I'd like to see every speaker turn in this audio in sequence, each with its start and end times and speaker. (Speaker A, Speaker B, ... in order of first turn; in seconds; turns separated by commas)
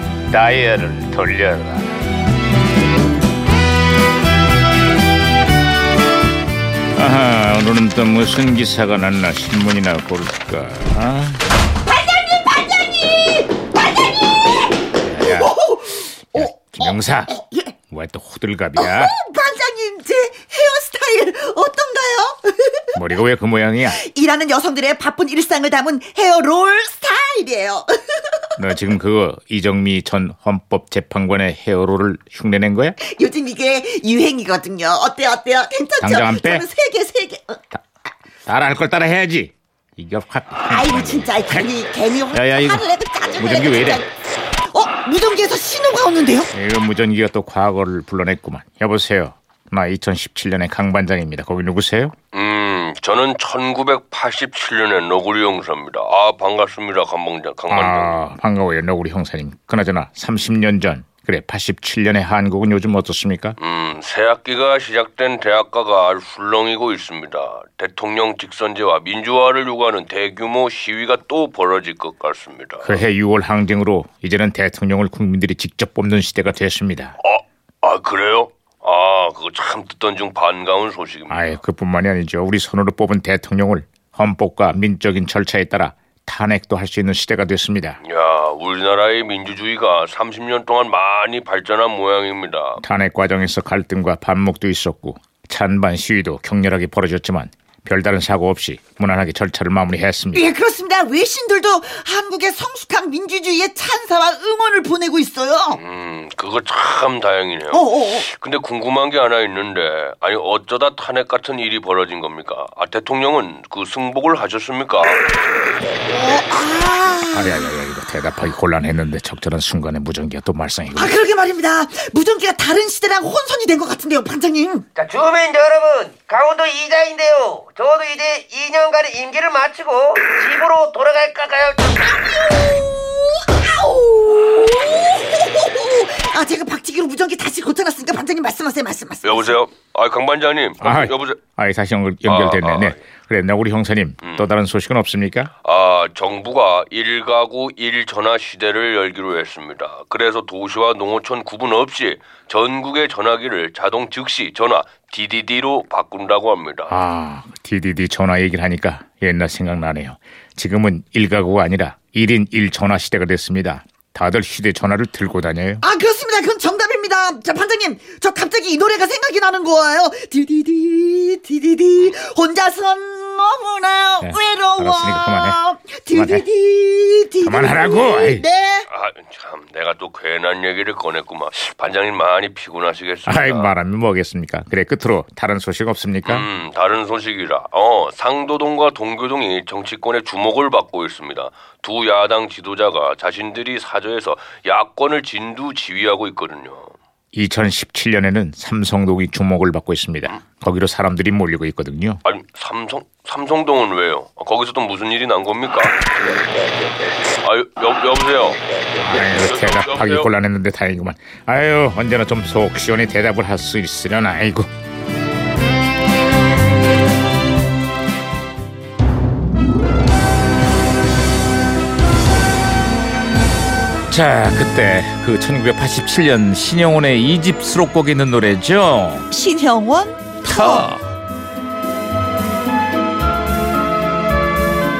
Speaker A: 0.3-1.9, Speaker A: 7.0-11.4, Speaker B: 11.9-14.7, Speaker A: 15.0-15.5, Speaker B: 15.2-17.7, Speaker A: 16.3-19.1, Speaker B: 18.8-22.9, Speaker A: 22.9-24.0, Speaker B: 23.9-28.5, Speaker A: 28.6-33.0, Speaker B: 33.0-37.8, Speaker A: 36.0-36.6, Speaker A: 38.5-41.7, Speaker B: 40.7-44.1, Speaker A: 42.3-44.0, Speaker B: 44.7-46.5, Speaker A: 46.5-52.1, Speaker C: 52.3-58.2, Speaker A: 57.7-63.6, Speaker C: 63.6-73.0, Speaker A: 72.8-77.2, Speaker C: 77.2-81.6, Speaker A: 81.3-88.0, Speaker C: 88.0-92.8, Speaker A: 92.8-100.5, Speaker B: 100.3-105.8, Speaker C: 105.7-115.3, Speaker B: 107.7-108.3, Speaker B: 116.1-117.7, Speaker A: 117.3-121.1, Speaker B: 120.9-124.8, Speaker D: 125.0-132.2, Speaker B: 132.2-139.6, Speaker C: 139.2-141.4, Speaker A: 140.8-145.5, Speaker C: 142.2-143.0, Speaker C: 144.2-144.5, Speaker C: 145.6-156.9, Speaker A: 156.9-165.8, Speaker B: 165.8-178.9, Speaker A: 174.2-175.6, Speaker A: 176.1-176.4, Speaker A: 177.4-178.4, Speaker C: 178.9-183.7, Speaker A: 183.2-186.5, Speaker C: 186.2-196.9, Speaker A: 197.3-202.2, Speaker C: 202.2-206.0, Speaker C: 207.4-210.3, Speaker A: 209.0-214.7, Speaker A: 224.1-229.3, Speaker B: 229.3-230.9, Speaker A: 230.4-231.0